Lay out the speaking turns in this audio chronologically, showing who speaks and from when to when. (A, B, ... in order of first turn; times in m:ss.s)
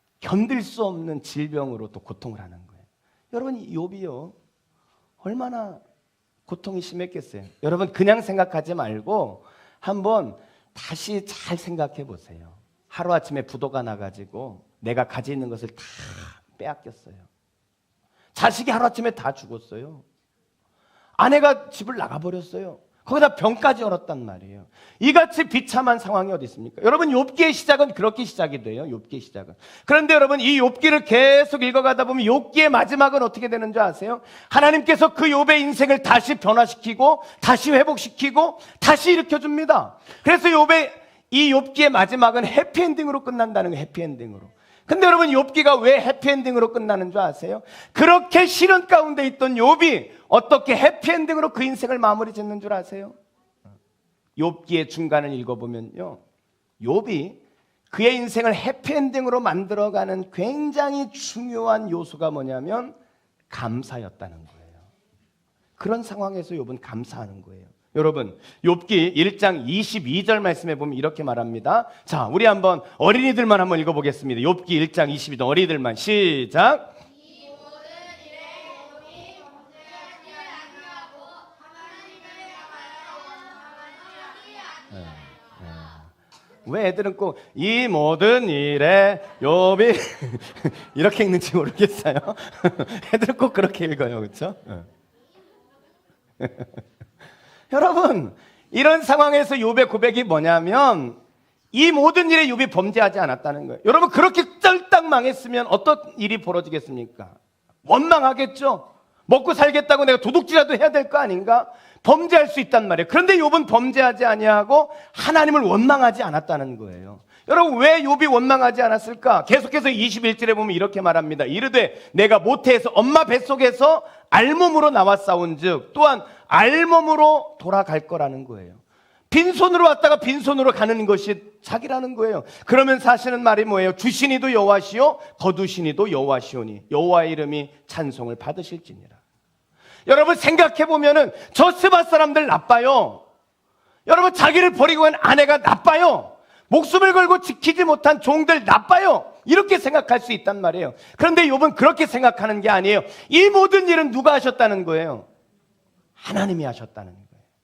0:00.2-0:04.4 A
0:05.2-0:05.8 A
0:06.5-0:17.3 A
0:18.3-0:20.0 A
0:21.2-0:53.2 A
0:54.4-0:56.2 A
0:56.8-0:57.4 A
0:57.9-1:03.0 A
1:03.5-1:04.8 A
1:05.8-1:17.0 A
1:24.9-1:26.1 A
1:26.6-1:34.9 A
1:36.4-1:36.8 A
1:37.7-1:41.2 A
1:41.7-2:19.2 A
2:20.1-2:23.2 A
2:24.1-2:35.3 A
2:36.2-2:37.4 A